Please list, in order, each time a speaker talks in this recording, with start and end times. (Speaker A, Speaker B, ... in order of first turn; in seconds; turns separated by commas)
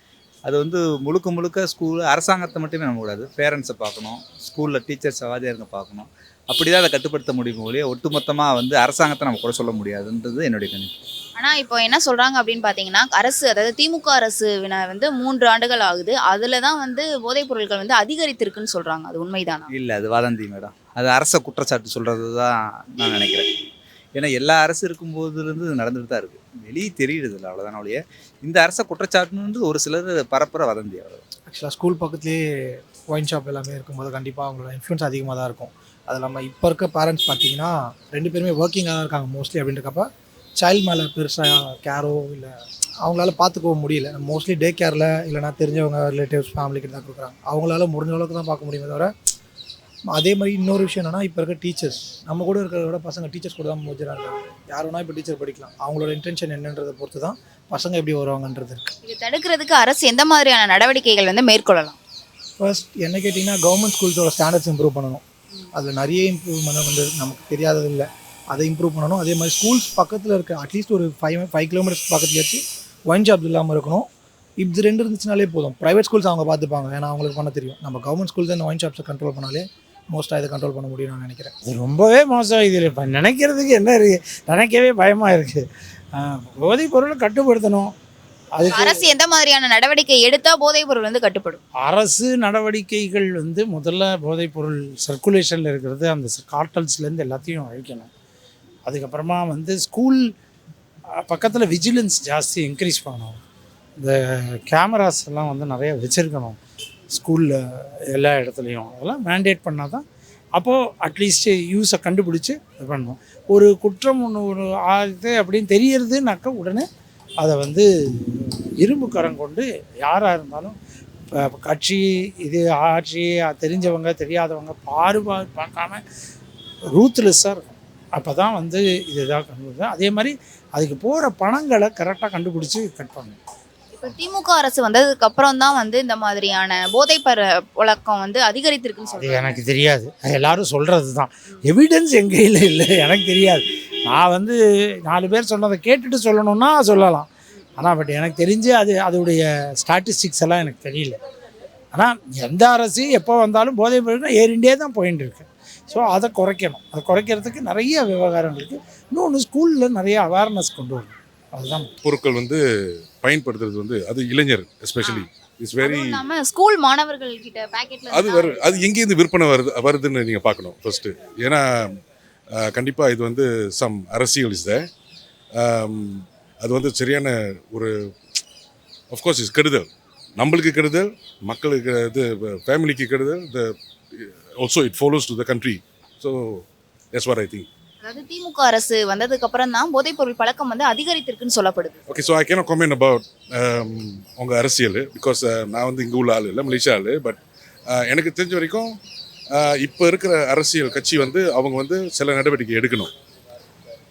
Speaker A: 0.4-10.9, Speaker B: 11.4-19.6, Speaker A: 19.7-23.4, Speaker A: 24.1-31.2, Speaker C: 31.5-40.1, Speaker C: 40.6-49.1, Speaker C: 50.1-58.9, Speaker B: 59.0-62.0, Speaker C: 62.6-65.2, Speaker C: 65.7-74.1, Speaker C: 74.6-81.5, Speaker D: 81.6-85.6, Speaker D: 86.2-87.9, Speaker D: 88.5-89.0, Speaker B: 88.7-91.6, Speaker D: 91.8-98.1, Speaker D: 98.8-100.2, Speaker D: 101.2-103.4, Speaker D: 104.0-106.6, Speaker D: 107.1-107.6, Speaker D: 108.1-110.0, Speaker D: 110.5-116.8, Speaker D: 117.4-120.8, Speaker D: 121.4-126.0, Speaker D: 126.9-133.3, Speaker B: 133.9-139.6, Speaker D: 139.1-151.2, Speaker D: 151.9-161.9, Speaker E: 162.0-162.6, Speaker E: 163.2-166.2, Speaker B: 165.8-168.8, Speaker E: 168.1-172.0, Speaker E: 172.6-174.8, Speaker E: 175.6-177.9, Speaker E: 179.1-183.7, Speaker E: 184.2-187.7, Speaker B: 188.0-192.0, Speaker E: 192.1-197.4, Speaker E: 197.9-198.9, Speaker E: 199.6-203.1